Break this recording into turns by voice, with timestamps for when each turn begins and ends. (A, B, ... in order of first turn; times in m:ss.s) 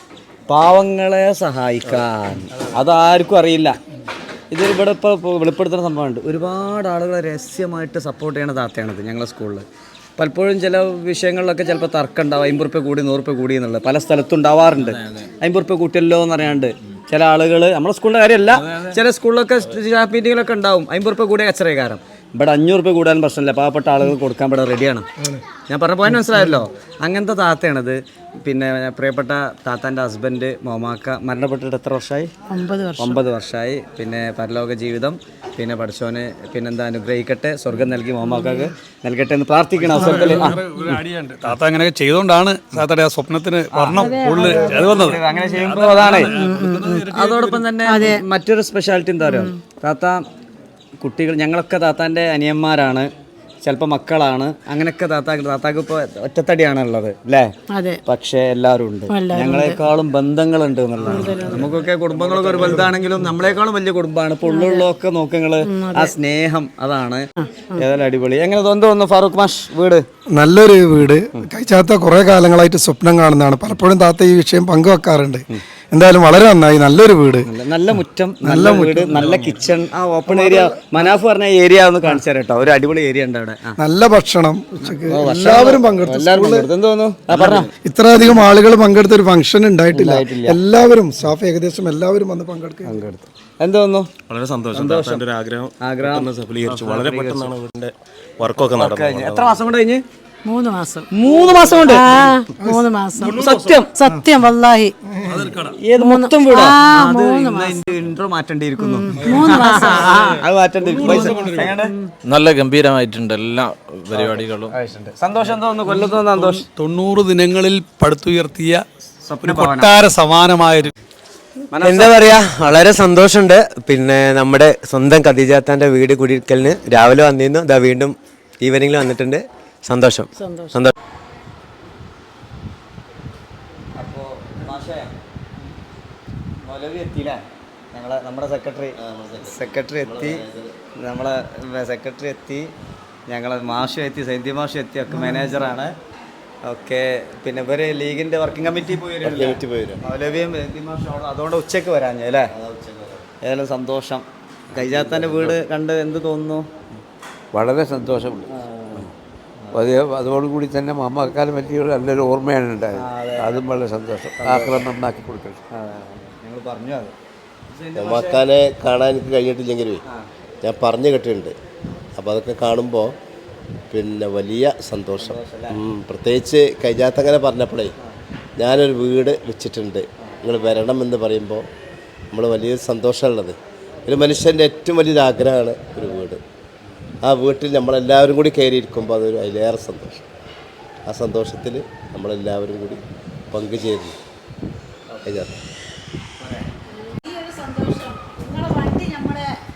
0:00.5-0:03.8 A
0:04.5-0:09.6 A
0:10.2-0:25.1 A
0:25.7-0:32.3 A
0:32.5-0:33.2 B
0:33.0-0:40.6 A
0:38.2-0:38.7 B
0:39.9-0:40.6 B
0:40.0-0:44.0 C
0:43.7-0:46.4 A
0:43.9-0:45.8 B
0:44.5-0:45.1 C
0:45.8-0:47.5 C
0:46.4-0:47.1 B
0:47.0-0:50.2 A
0:47.8-0:48.2 B
0:49.2-0:49.5 B
0:51.0-0:53.1 A
0:53.6-0:57.5 A
0:57.7-0:58.0 B
0:58.1-1:10.0 A
0:59.1-0:59.8 B
1:01.1-1:01.7 B
1:04.5-1:04.8 B
1:05.7-1:06.1 B
1:07.4-1:07.8 B
1:10.3-1:17.5 D
1:17.4-1:23.8 A
1:18.4-1:19.2 D
1:20.3-1:20.8 D
1:23.8-1:26.7 D
1:25.0-1:27.7 A
1:27.3-1:32.9 D
1:29.9-1:30.6 A
1:32.8-1:34.2 A
1:34.3-1:39.6 E
1:34.7-1:35.3 A
1:35.8-1:37.6 A
1:38.6-1:40.0 A
1:40.4-1:41.1 B
1:41.1-1:42.3 A
1:41.8-1:44.9 B
1:42.6-1:42.9 D
1:43.4-1:43.9 A
1:45.6-1:51.9 A
1:46.0-1:47.9 B
1:48.8-1:50.2 B
1:51.0-1:51.4 B
1:51.1-1:51.7 C
1:52.3-1:54.7 F
1:54.1-1:56.7 A
1:56.4-1:58.8 C
1:59.3-1:59.9 A
1:59.5-2:00.9 C
2:01.7-2:02.3 A
2:01.9-2:10.9 G
2:10.4-2:10.8 B
2:14.0-2:15.1 A
2:16.6-2:17.4 A
2:17.9-2:20.4 A
2:19.0-2:20.7 H
2:21.0-2:22.7 A
2:23.3-2:25.9 A
2:26.6-2:32.5 A
2:29.2-2:30.0 H
2:32.6-2:33.2 H
2:33.4-2:36.7 A
2:34.8-2:35.5 I
2:37.5-2:38.5 I
2:38.5-2:39.1 A
2:39.7-2:45.6 I
2:42.9-2:43.7 A
2:44.4-2:44.8 A
2:45.7-2:47.1 A
2:47.7-2:48.5 A
2:48.0-2:50.0 H
2:50.6-2:51.5 H
2:52.2-2:53.1 H
2:53.9-2:57.9 H
2:55.2-2:55.8 A
2:58.6-3:01.6 H
3:02.3-3:03.6 H
3:04.1-3:06.4 H
3:07.2-3:10.2 H
3:11.1-3:13.0 H
3:13.5-3:14.2 H
3:15.1-3:15.4 A
3:15.3-3:15.6 H
3:16.4-3:16.7 A
3:16.9-3:19.5 B